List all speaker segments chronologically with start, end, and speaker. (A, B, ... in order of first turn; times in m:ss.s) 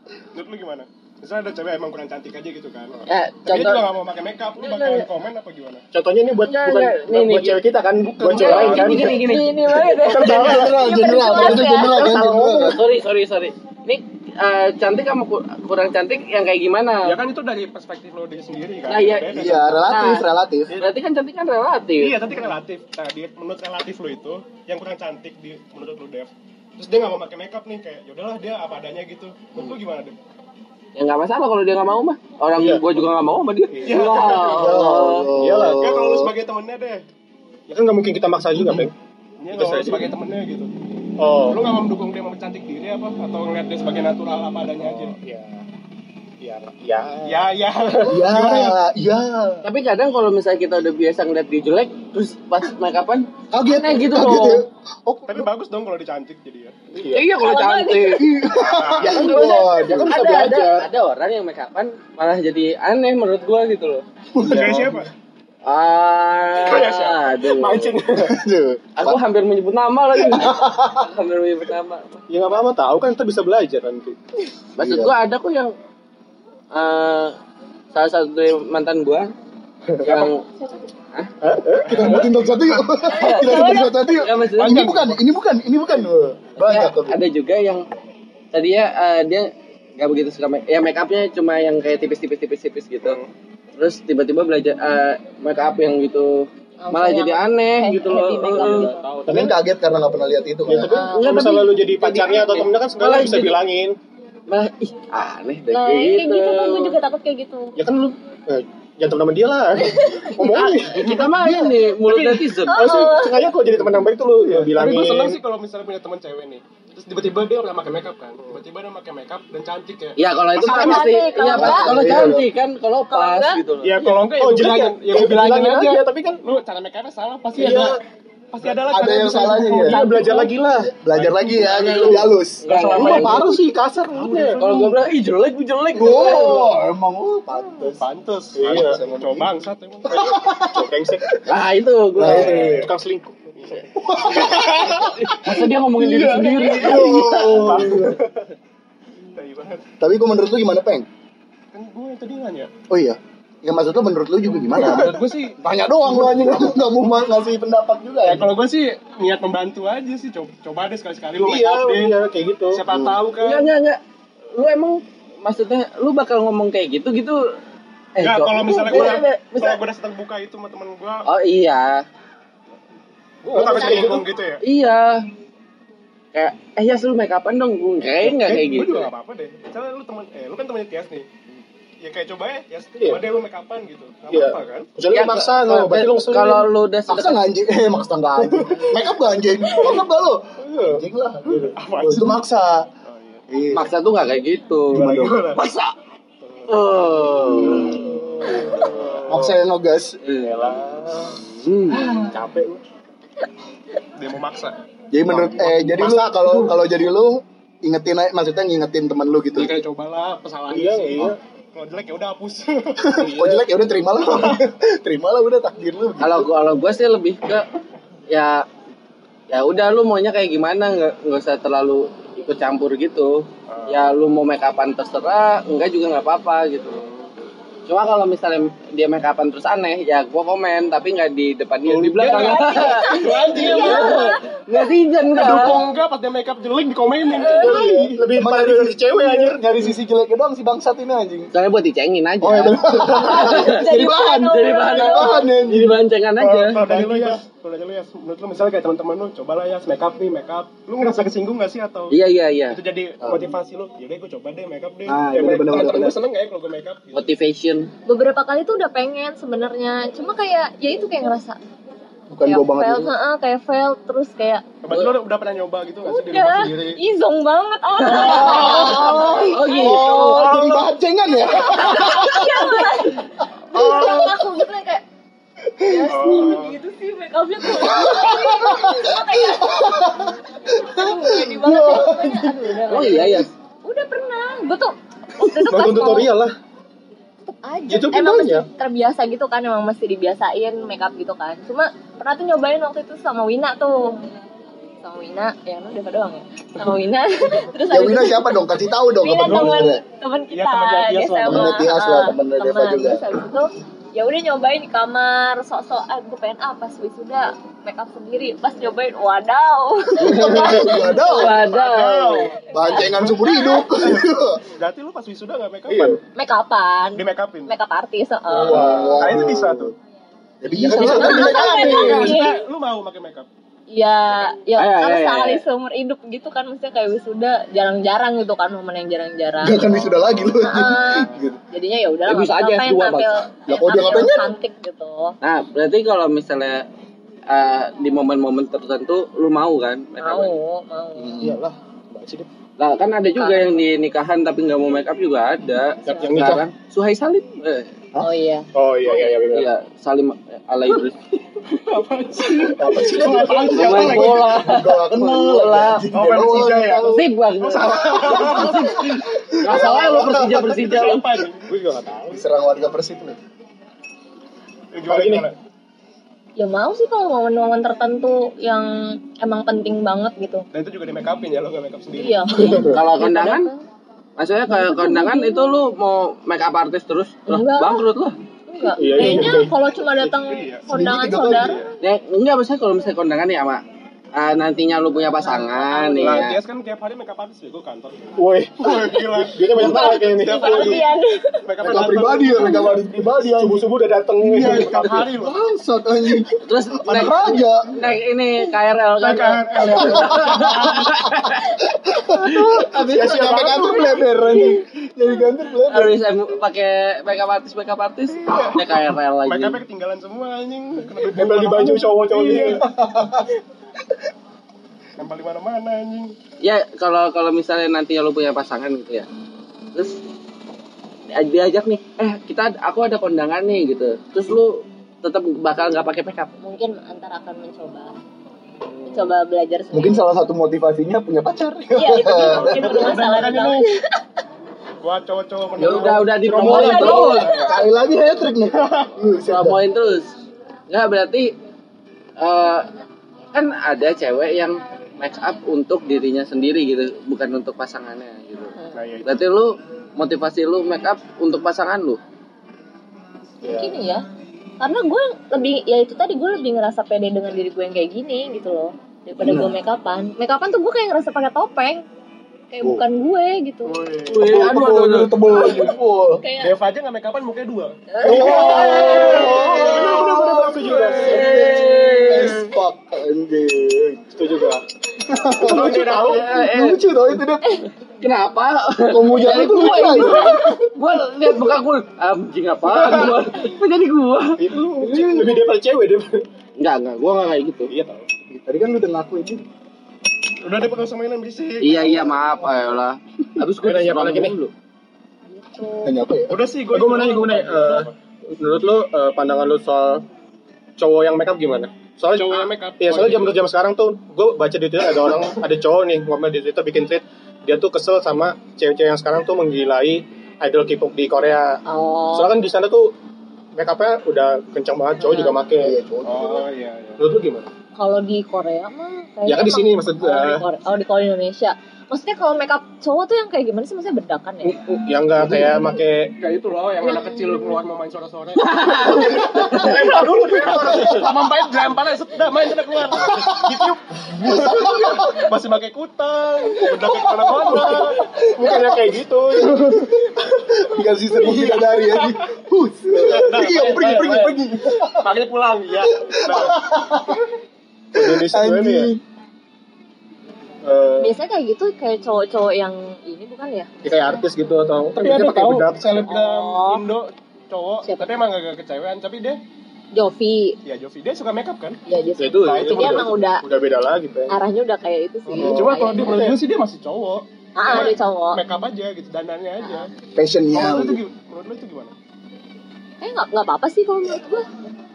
0:00.3-0:05.8 A
0:03.1-0:03.9 B
0:04.6-0:05.1 B
0:05.9-0:09.2 C
0:06.4-0:07.6 B
0:08.0-0:09.1 A
0:08.3-0:09.5 B
0:08.9-0:12.0 D
0:10.0-0:10.8 C
0:10.2-0:12.8 E
0:11.9-0:12.8 C
0:12.6-0:17.2 B
0:17.0-0:19.8 A
0:18.9-0:22.2 B
0:19.3-0:20.7 E
0:22.0-0:30.2 A
0:31.0-0:35.3 B
0:32.6-0:32.8 C
0:33.8-0:34.9 A
0:34.4-0:36.3 E
0:35.3-0:35.8 C
0:35.4-0:37.0 A
0:37.7-0:38.9 C
0:39.4-0:40.7 A
0:39.5-0:40.1 C
0:41.2-0:41.6 C
0:41.5-0:45.1 A
0:44.8-0:45.6 C
0:46.4-0:47.5 C
0:47.2-0:48.8 A
0:48.1-0:49.6 E
0:49.6-0:54.6 B
0:53.5-0:55.5 E
0:55.3-0:57.0 A
0:56.9-0:57.2 C
0:57.1-0:58.3 B
0:57.3-0:58.3 D
0:58.2-1:00.2 E
0:58.6-0:59.2 A
0:59.0-1:04.0 B
0:59.8-1:00.9 C
1:04.3-1:05.0 E
1:04.4-1:05.1 A
1:05.6-1:08.0 B
1:06.6-1:08.3 A
1:08.2-1:09.2 E
1:09.0-1:12.2 B
1:10.2-1:11.1 E
1:12.3-1:14.2 C
1:14.8-1:15.7 B
1:14.8-1:15.1 E
1:16.7-1:17.3 B
1:17.9-1:19.3 B
1:19.9-1:20.2 C
1:20.0-1:20.5 B
1:21.4-1:22.3 C
1:21.8-1:22.3 A
1:21.8-1:27.2 E
1:23.0-1:24.2 D
1:23.1-1:25.1 B
1:24.6-1:25.1 A
1:26.6-1:27.8 B
1:28.5-1:33.2 B
1:33.0-1:33.3 A
1:33.8-1:38.9 B
1:36.8-1:39.0 D
1:38.6-1:39.5 C
1:39.3-1:40.9 E
1:40.6-1:44.0 C
1:40.8-1:41.4 D
1:41.1-1:43.6 B
1:44.5-1:47.0 B
1:45.7-1:47.8 D
1:47.8-1:51.1 C
1:49.8-1:50.6 D
1:50.5-1:53.1 B
1:51.0-1:51.5 A
1:52.1-1:55.4 C
1:52.6-1:53.5 D
1:54.4-2:01.1 A
2:00.2-2:04.0 B
2:00.6-2:02.2 D
2:01.5-2:02.4 E
2:03.1-2:03.6 D
2:03.8-2:08.0 A
2:04.0-2:06.4 C
2:07.6-2:08.0 C
2:08.5-2:10.5 A
2:08.8-2:10.0 E
2:09.8-2:14.7 C
2:09.9-2:10.5 D
2:10.8-2:13.5 E
2:11.1-2:12.1 A
2:11.6-2:13.5 B
2:12.9-2:13.5 A
2:14.1-2:15.0 A
2:14.3-2:16.7 B
2:15.9-2:18.1 E
2:18.0-2:20.6 A
2:18.6-2:19.4 C
2:18.7-2:19.5 E
2:20.1-2:20.9 E
2:20.6-2:21.4 C
2:21.5-2:22.9 B
2:22.2-2:22.8 E
2:22.2-2:23.5 C
2:22.2-2:22.9 A
2:23.6-2:28.4 A
2:24.0-2:25.1 E
2:24.6-2:27.9 B
2:26.6-2:28.2 E
2:29.3-2:29.8 A
2:30.0-2:31.1 E
2:31.7-2:32.7 A
2:32.9-2:38.5 E
2:34.7-2:35.6 A
2:38.2-2:42.2 A
2:41.4-2:42.8 C
2:42.7-2:43.7 A
2:42.9-2:43.2 E
2:43.4-2:44.0 B
2:44.5-2:47.5 B
2:48.1-2:49.8 B
2:48.2-2:51.3 A
2:51.2-2:52.0 B
2:53.4-2:54.6 A
2:53.5-2:54.2 C
2:54.6-2:55.3 B
2:56.3-2:59.1 B
2:58.2-3:01.3 A
3:02.0-3:04.9 A
3:03.0-3:03.2 C
3:04.3-3:06.7 C
3:05.1-3:07.4 B
3:07.1-3:12.8 E
3:08.5-3:08.8 C
3:10.7-3:11.0 C
3:11.7-3:12.4 A
3:13.0-3:13.4 A
3:13.5-3:13.9 E
3:13.7-3:15.9 B
3:14.9-3:15.6 A
3:15.0-3:15.3 E
3:16.4-3:16.7 A
3:16.7-3:18.1 B
3:17.4-3:18.3 E
3:18.3-3:19.4 C
3:18.4-3:19.5 A
3:19.3-3:20.2 E
3:20.3-3:21.4 C
3:21.4-3:22.2 B
3:21.9-3:22.8 C
3:24.2-3:24.8 A
3:25.1-3:29.8 E
3:25.3-3:25.7 A
3:25.4-3:26.7 C
3:29.5-3:33.6 A
3:30.7-3:31.4 C
3:33.0-3:36.5 E
3:34.3-3:34.6 A
3:36.2-3:37.7 B
3:38.3-3:38.7 B
3:39.5-3:47.3 B
3:43.7-3:44.0 A
3:47.8-3:55.9 B
3:51.8-3:54.4 A
3:52.3-3:54.6 D
3:55.3-3:58.1 A
3:57.4-3:57.8 D
3:57.6-4:01.5 E
3:57.6-3:59.6 C
4:01.5-4:03.9 B
4:02.4-4:06.0 E
4:03.2-4:05.5 D
4:04.4-4:06.8 B
4:06.4-4:12.2 A
4:06.7-4:07.4 C
4:12.1-4:12.8 B
4:12.7-4:17.2 A
4:15.0-4:16.2 E
4:17.1-4:17.9 B
4:18.0-4:21.6 D
4:22.3-4:23.1 E
4:22.4-4:24.6 D
4:24.8-4:27.0 A
4:26.0-4:30.6 D
4:28.0-4:30.7 B
4:28.5-4:33.0 E
4:30.1-4:30.8 A
4:31.5-4:35.0 D
4:33.7-4:34.4 E
4:33.8-4:34.2 A
4:35.8-4:36.6 E
4:35.8-4:46.3 D
4:36.1-4:36.8 A
4:37.6-4:42.8 E
4:42.9-4:43.5 B
4:45.6-4:46.5 C
4:47.4-4:54.2 D
4:47.9-4:48.6 C
4:55.0-4:58.6 D
4:57.9-5:00.0 E
4:59.2-5:11.5 D
4:59.4-4:59.8 A
5:00.5-5:01.8 A
5:01.4-5:03.2 E
5:10.2-5:11.7 E
5:10.3-5:12.5 B
5:11.6-5:13.3 A
5:12.7-5:14.6 E
5:12.7-5:13.9 D
5:13.9-5:16.2 A
5:15.9-5:16.2 C
5:16.4-5:19.0 D
5:17.2-5:17.7 A
5:18.6-5:19.9 E
5:18.7-5:19.5 C
5:18.7-5:19.9 A
5:20.6-5:22.5 E
5:20.7-5:22.6 D
5:20.9-5:23.5 A
5:20.9-5:21.2 C
5:23.9-5:29.9 D
5:24.8-5:25.6 B
5:29.6-5:31.6 E
5:30.6-5:35.4 D
5:32.3-5:33.4 B
5:33.7-5:34.5 E
5:35.4-5:36.9 B
5:37.5-5:40.6 B
5:40.2-5:41.4 D
5:41.2-5:41.6 E
5:41.4-5:42.5 C
5:42.8-5:47.9 B
5:43.4-5:43.7 D
5:46.1-5:46.3 D
5:46.1-5:46.6 C
5:48.2-5:48.7 D
5:48.7-5:49.7 C
5:49.0-5:51.6 B
5:51.7-5:54.5 A
5:52.7-5:57.3 E
5:53.6-5:56.1 B
5:56.1-5:59.1 A
5:56.1-5:57.0 C
5:57.0-6:01.3 B
5:58.2-6:00.8 E
5:59.7-6:02.2 A
6:01.7-6:02.4 C
6:02.3-6:03.4 E
6:04.9-6:05.6 A
6:05.1-6:05.5 C
6:06.6-6:10.6 D
6:10.7-6:12.8 A
6:12.2-6:13.8 D
6:12.7-6:13.0 C
6:12.7-6:13.7 B
6:14.4-6:18.4 B
6:14.7-6:15.8 D
6:17.5-6:18.0 D
6:18.7-6:21.8 D
6:19.0-6:19.7 C
6:19.2-6:19.5 A
6:20.2-6:20.9 A
6:20.9-6:21.8 E
6:21.6-6:21.9 A
6:22.0-6:23.8 B
6:24.3-6:26.6 B
6:25.6-6:26.3 D
6:25.9-6:31.1 A
6:28.4-6:31.0 C
6:29.7-6:31.6 D
6:31.6-6:33.3 A
6:31.8-6:33.9 E
6:33.4-6:35.2 C
6:34.4-6:38.0 E
6:34.5-6:35.6 A
6:36.6-6:41.7 B
6:39.2-6:41.5 A
6:40.2-6:40.9 E
6:41.4-6:46.2 E
6:42.5-6:42.8 B
6:43.1-6:44.3 A
6:43.1-6:43.8 C
6:45.9-6:49.8 B
6:48.4-6:48.9 A
6:49.4-6:52.8 A
6:51.3-6:52.8 C
6:52.8-6:53.4 E
6:55.2-6:56.3 A
6:56.6-6:59.3 B
6:59.9-7:00.2 B
7:01.3-7:06.5 B
7:06.6-7:08.1 D
7:09.0-7:10.2 D
7:09.9-7:13.2 E
7:11.9-7:14.2 D
7:12.3-7:13.9 A
7:15.0-7:17.7 A
7:15.8-7:17.6 B
7:16.4-7:17.4 C
7:16.6-7:17.8 D
7:17.4-7:19.8 E
7:19.4-7:20.3 B
7:20.9-7:21.5 B
7:22.4-7:22.9 B
7:23.5-7:32.2 B
7:28.9-7:29.3 A
7:33.6-7:34.2 D
7:34.8-7:42.0 D
7:39.4-7:39.7 E
7:42.7-7:44.0 D
7:43.9-7:44.6 A
7:44.2-7:45.4 B
7:44.3-7:46.4 E
7:45.6-7:45.9 D
7:46.4-7:46.7 D
7:46.6-7:52.1 A
7:48.1-7:50.0 D
7:48.2-7:54.2 E
7:48.3-7:49.9 B
7:51.1-7:52.6 B
7:54.3-7:54.8 C
7:55.2-7:57.8 E
7:55.6-7:56.9 A
7:55.7-7:56.6 C
7:58.2-8:04.8 B
7:59.1-8:00.9 E
7:59.6-8:00.7 D
8:02.9-8:03.5 A
8:04.6-8:06.4 C
8:04.9-8:05.5 A
8:05.0-8:05.6 E
8:06.8-8:07.9 B
8:07.9-8:08.2 C
8:08.5-8:09.6 E
8:10.6-8:12.3 A
8:11.8-8:14.7 B
8:12.0-8:12.4 E
8:13.8-8:14.5 C
8:15.5-8:16.1 D
8:16.0-8:16.6 E
8:16.5-8:18.1 A
8:16.9-8:20.2 C
8:21.0-8:33.1 C
8:22.3-8:23.6 A
8:31.8-8:32.5 D
8:33.7-8:36.0 C
8:35.2-8:35.6 D
8:35.8-8:36.6 E
8:36.2-8:37.2 A
8:37.2-8:37.7 C
8:38.0-8:44.8 D
8:39.4-8:40.6 C
8:44.6-8:48.1 C
8:45.4-8:45.8 E
8:46.5-9:00.2 A
8:47.0-8:47.8 D
8:48.6-8:50.2 B
8:49.8-8:51.2 C
8:50.6-8:51.2 E
8:53.1-8:55.5 E
8:56.8-8:59.0 E
8:59.5-9:05.2 E
9:01.3-9:02.4 A
9:03.2-9:06.8 A
9:04.2-9:04.4 C
9:06.2-9:07.4 E
9:08.1-9:09.2 E
9:08.1-9:09.1 A
9:10.8-9:11.3 C
9:11.2-9:14.3 D
9:14.0-9:16.3 C
9:15.1-9:19.6 A
9:16.2-9:17.0 D
9:18.0-9:18.3 D
9:20.1-9:20.8 D
9:20.8-9:22.0 A
9:22.1-9:23.6 D
9:22.4-9:24.6 C
9:22.6-9:23.3 A
9:24.5-9:26.5 D
9:25.5-9:26.6 C
9:25.6-9:30.1 A
9:27.8-9:28.6 D
9:30.3-9:31.2 E
9:30.7-9:32.1 A
9:33.2-9:34.6 D